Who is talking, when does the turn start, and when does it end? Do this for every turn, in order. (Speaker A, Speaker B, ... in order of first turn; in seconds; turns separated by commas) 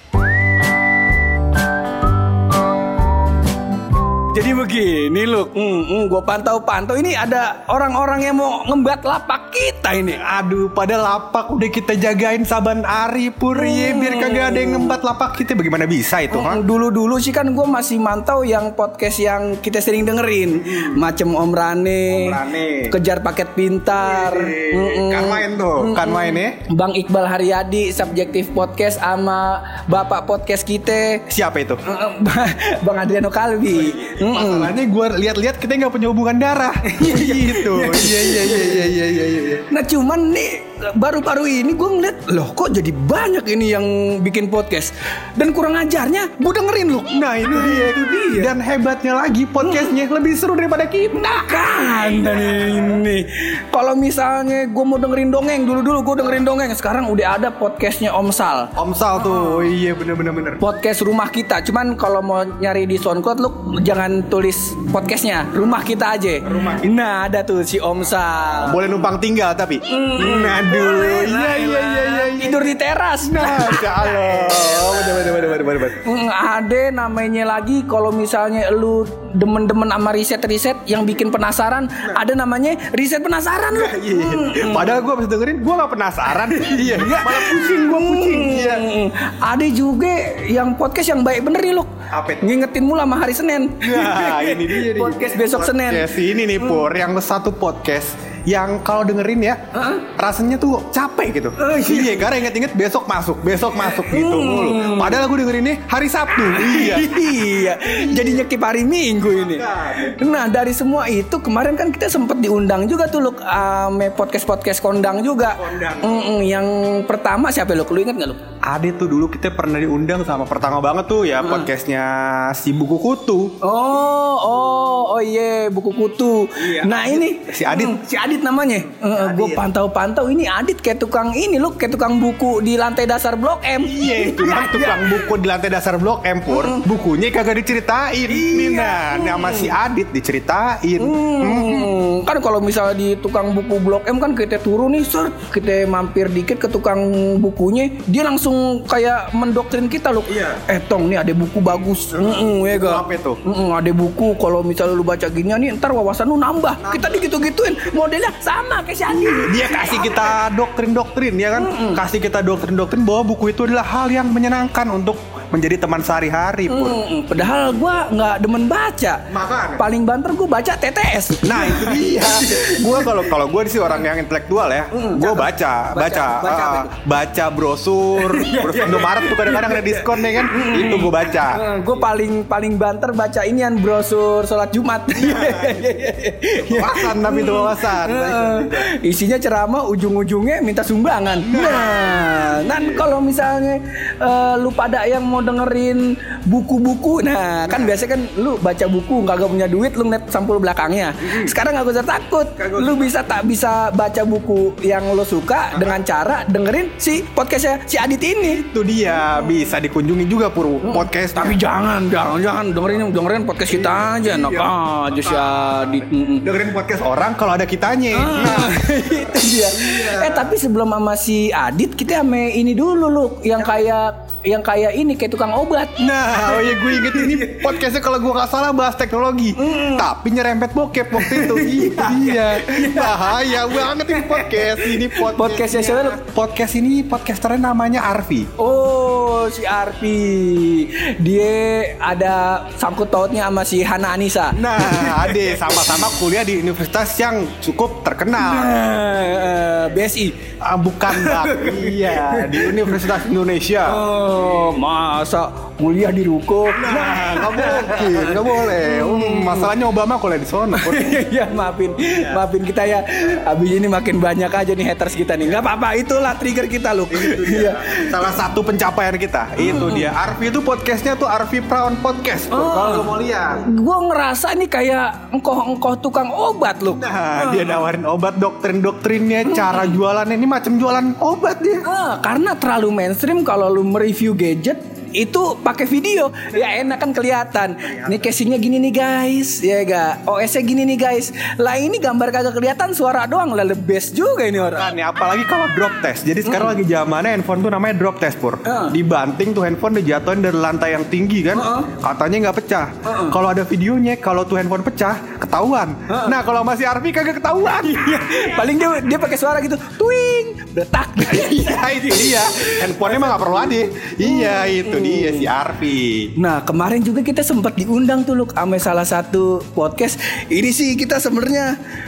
Speaker A: 4.3-10.2, Speaker B: 10.1-16.6, Speaker A: 13.5-14.9, Speaker A: 16.3-31.2, Speaker B: 20.7-21.0, Speaker B: 22.1-22.9, Speaker B: 23.9-26.6, Speaker B: 31.3-31.8, Speaker A: 31.9-34.7, Speaker B: 33.8-39.6, Speaker A: 36.9-38.9, Speaker A: 39.7-48.5, Speaker B: 47.1-53.0, Speaker A: 49.6-49.9, Speaker A: 51.2-59.7, Speaker B: 58.8-60.6, Speaker A: 60.6-68.8, Speaker B: 66.4-67.1, Speaker B: 68.5-76.0, Speaker A: 69.9-85.1, Speaker B: 83.8-88.8, Speaker A: 86.6-96.1, Speaker B: 92.1-92.5, Speaker B: 93.8-99.6, Speaker A: 99.8-100.0, Speaker B: 100.2-107.1, Speaker A: 101.6-102.3, Speaker A: 103.8-105.2, Speaker A: 106.5-118.4, Speaker B: 107.8-108.5, Speaker B: 109.3-110.1, Speaker B: 115.4-116.3, Speaker B: 118.6-123.6, Speaker A: 121.4-121.7, Speaker A: 123.6-135.3, Speaker B: 126.6-128.0, Speaker B: 129.1-129.6, Speaker B: 133.8-141.9, Speaker A: 136.5-136.8, Speaker A: 138.3-139.7, Speaker A: 141.0-160.4, Speaker B: 150.3-150.6, Speaker B: 152.2-153.4, Speaker B: 156.8-157.3, Speaker B: 159.4-167.0, Speaker A: 161.6-162.0, Speaker A: 166.7-169.2, Speaker B: 169.3-169.8, Speaker A: 169.8-173.2, Speaker B: 171.4-181.6, Speaker A: 174.9-176.9, Speaker A: 178.2-208.6, Speaker B: 185.2-185.9, Speaker B: 186.7-188.8, Speaker B: 191.5-193.0, Speaker B: 197.7-198.0, Speaker B: 201.2-201.5, Speaker B: 202.6-203.1, Speaker B: 208.4-211.6, Speaker A: 210.8-216.4, Speaker B: 213.7-218.7, Speaker A: 218.2-227.8, Speaker B: 219.7-220.5, Speaker B: 226.0-238.5, Speaker A: 229.6-230.1, Speaker A: 231.2-236.2, Speaker A: 238.6-245.6, Speaker B: 244.6-248.7, Speaker A: 248.4-250.4, Speaker B: 250.6-254.0, Speaker A: 251.1-253.1, Speaker A: 253.9-259.7, Speaker B: 256.8-261.0, Speaker A: 260.8-268.0, Speaker B: 267.1-273.6, Speaker A: 269.6-270.1, Speaker A: 272.5-273.1, Speaker A: 273.6-277.9, Speaker B: 276.9-281.8, Speaker A: 279.5-280.0, Speaker A: 281.9-294.9, Speaker B: 287.9-288.3, Speaker B: 294.7-308.0, Speaker A: 296.4-296.7, Speaker A: 298.7-298.9, Speaker A: 301.6-301.9, Speaker A: 303.1-303.3, Speaker A: 307.8-315.5, Speaker B: 311.3-316.3, Speaker A: 316.4-321.7